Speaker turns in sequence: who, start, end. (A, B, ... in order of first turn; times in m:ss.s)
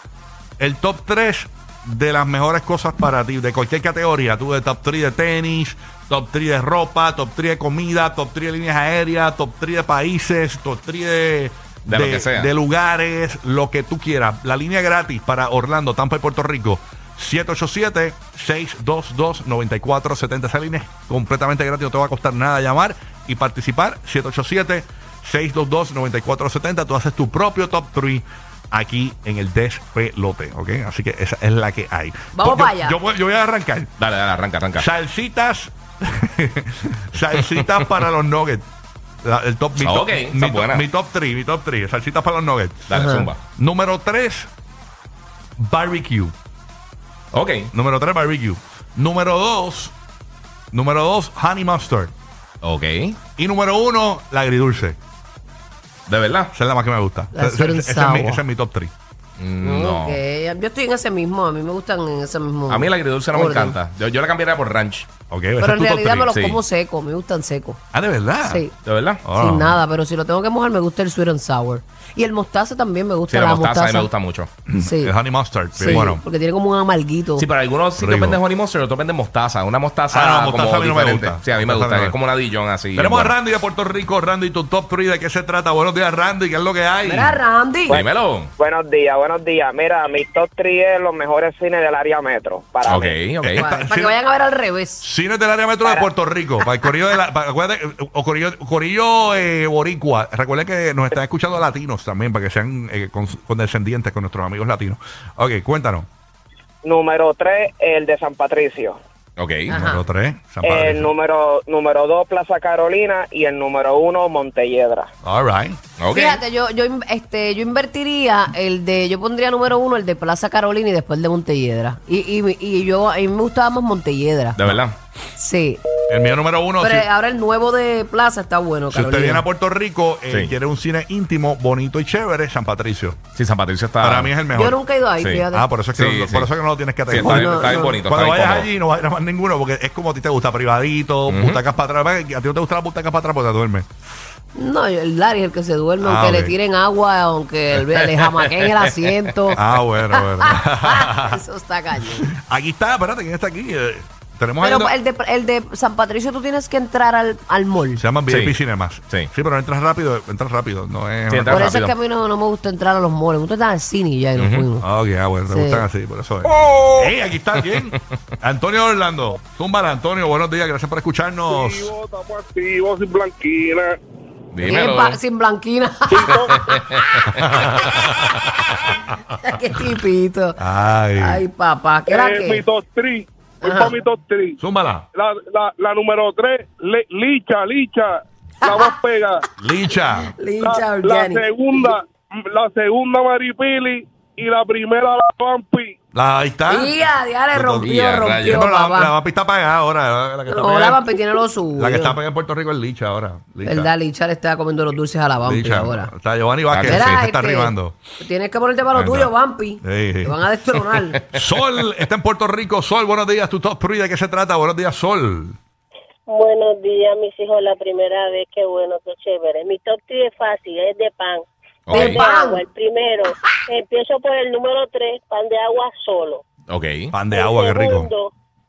0:00.6-0:34.0 A
0:11.9-0:12.5 B
0:32.3-0:33.0 C
0:34.0-0:34.9 B
0:34.8-0:38.6 A
0:39.2-0:42.9 A
0:39.8-0:40.8 B
0:42.9-0:43.4 B
0:42.9-0:43.3 C
0:43.6-0:44.5 A
0:45.6-0:46.3 A
0:47.3-0:47.7 B
0:47.7-0:49.9 A
0:50.7-0:52.1 A
0:52.6-0:53.2 B
0:53.4-0:55.0 A
0:56.1-0:56.5 B
0:56.5-0:58.9 A
0:57.3-0:58.4 C
0:59.4-1:00.2 B
0:59.6-1:03.8 C
1:02.7-1:05.1 B
1:05.3-1:06.3 A
1:05.6-1:07.8 C
1:06.3-1:06.6 B
1:07.9-1:08.6 A
1:08.4-1:08.7 C
1:08.8-1:09.2 B
1:09.2-1:09.8 A
1:09.3-1:14.1 C
1:13.3-1:14.5 B
1:14.7-1:16.2 A
1:14.8-1:15.1 C
1:15.7-1:17.4 C
1:17.4-1:23.3 B
1:18.0-1:18.4 A
1:20.1-1:22.2 A
1:22.9-1:27.4 A
1:27.0-1:28.0 C
1:27.9-1:28.5 B
1:28.6-1:33.1 D
1:32.8-1:33.6 B
1:33.4-1:34.2 A
1:33.5-1:35.0 C
1:35.0-1:46.1 A
1:46.8-1:49.0 D
1:49.4-1:49.7 B
1:49.7-1:50.0 C
1:49.7-1:51.1 A
1:50.6-1:55.1 D
1:55.2-1:55.8 A
1:56.0-1:56.4 B
1:56.1-2:04.6 C
2:04.5-2:05.0 B
2:05.4-2:05.8 C
2:06.1-2:07.1 A
2:06.8-2:09.4 C
2:08.9-2:13.2 A
2:10.3-2:10.5 B
2:13.3-2:14.4 B
2:14.0-2:14.8 A
2:14.5-2:15.7 C
2:15.2-2:16.5 B
2:15.5-2:23.9 A
2:17.1-2:18.7 B
2:17.2-2:18.0 C
2:21.3-2:21.6 B
2:24.5-2:29.6 C
2:26.0-2:26.6 A
2:29.5-2:31.4 A
2:30.1-2:32.3 C
2:32.1-2:34.9 A
2:34.6-2:38.0 C
2:37.9-2:41.8 A
2:38.3-2:38.6 B
2:41.3-2:41.9 B
2:41.5-2:44.8 C
2:44.4-2:44.6 B
2:44.8-2:51.9 A
2:45.4-2:45.8 C
2:51.5-2:54.0 E
2:54.5-2:55.2 B
2:54.6-2:57.2 C
2:56.1-2:56.5 E
2:56.6-2:57.3 B
2:57.3-2:59.0 A
2:59.4-3:00.6 C
3:00.6-3:01.4 A
3:01.2-3:02.6 C
3:02.1-3:04.6 E
3:03.6-3:03.9 C
3:04.6-3:05.0 A
3:05.1-3:09.4 E
3:08.6-3:08.9 C
3:09.6-3:10.3 A
3:10.2-3:11.9 C
3:10.6-3:15.9 E
3:16.1-3:17.0 A
3:16.7-3:19.2 C
3:17.5-3:23.9 A
3:17.8-3:18.6 B
3:20.5-3:22.2 C
3:23.6-3:26.1 C
3:25.4-3:28.0 A
3:26.7-3:27.2 B
3:26.9-3:31.2 C
3:28.9-3:30.4 A
3:31.2-3:35.6 A
3:36.3-3:41.4 F
3:41.9-3:42.2 B
3:41.9-3:42.6 C
3:42.0-3:46.4 F
3:46.7-3:47.1 B
3:47.1-3:48.1 A
3:47.3-3:48.3 F